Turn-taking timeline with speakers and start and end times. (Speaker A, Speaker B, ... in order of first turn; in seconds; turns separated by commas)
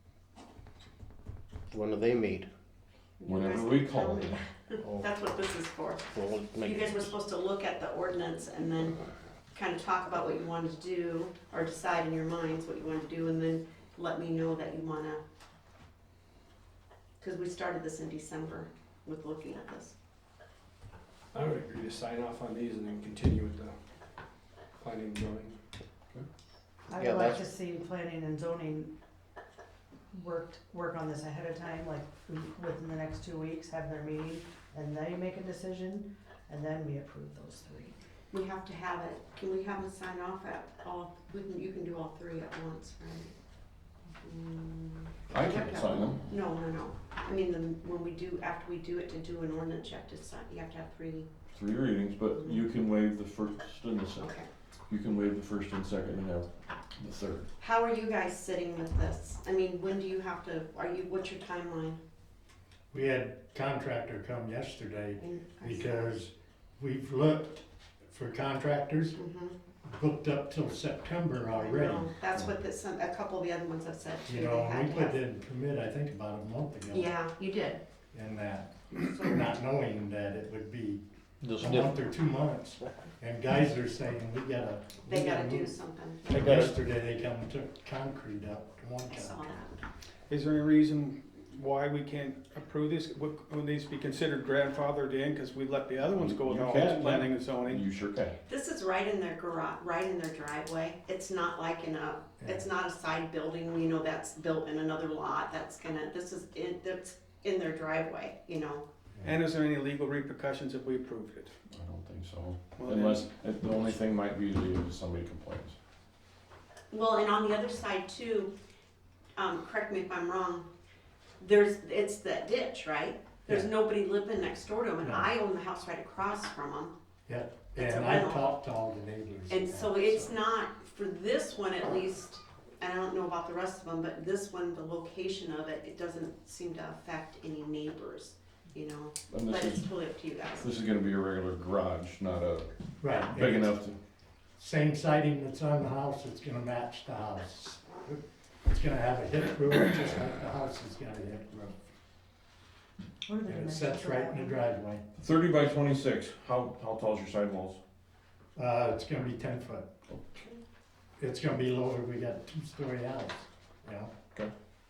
Speaker A: 1.7-2.5, Speaker B: 3.2-9.0, Speaker C: 3.2-4.4, Speaker A: 4.8-5.1, Speaker A: 6.1-7.1, Speaker B: 9.5-15.2, Speaker B: 17.2-19.9, Speaker D: 21.3-23.8, Speaker D: 24.8-25.6, Speaker E: 26.9-28.9, Speaker A: 26.9-27.5, Speaker E: 30.1-38.0, Speaker B: 38.3-43.3, Speaker B: 44.2-51.3, Speaker C: 45.3-46.2, Speaker C: 51.5-54.3, Speaker B: 52.4-52.6, Speaker B: 54.2-54.5, Speaker C: 54.9-57.5, Speaker B: 57.6-62.0, Speaker F: 62.9-69.2, Speaker B: 65.2-65.9, Speaker B: 69.1-69.6, Speaker F: 69.8-72.5, Speaker B: 71.5-75.2, Speaker F: 74.3-77.1, Speaker B: 76.9-77.8, Speaker F: 78.1-81.0, Speaker A: 81.4-82.0, Speaker F: 81.6-85.8, Speaker B: 85.1-86.5, Speaker F: 86.3-89.4, Speaker A: 86.3-86.7, Speaker B: 89.1-89.8, Speaker G: 90.3-97.8, Speaker C: 96.1-98.4, Speaker B: 98.5-108.8, Speaker G: 109.2-111.5, Speaker C: 111.7-115.8, Speaker G: 112.8-113.3, Speaker B: 116.9-118.5, Speaker B: 119.3-120.7, Speaker B: 121.4-126.9, Speaker F: 125.0-125.3, Speaker F: 127.3-130.3, Speaker B: 127.8-128.6, Speaker B: 129.5-140.7, Speaker C: 139.3-139.9, Speaker C: 140.5-142.7, Speaker F: 143.0-143.8, Speaker C: 143.2-144.0, Speaker F: 144.6-151.8, Speaker E: 153.2-154.6, Speaker F: 153.4-155.0, Speaker C: 155.2-157.8, Speaker F: 158.6-159.9, Speaker F: 161.2-164.1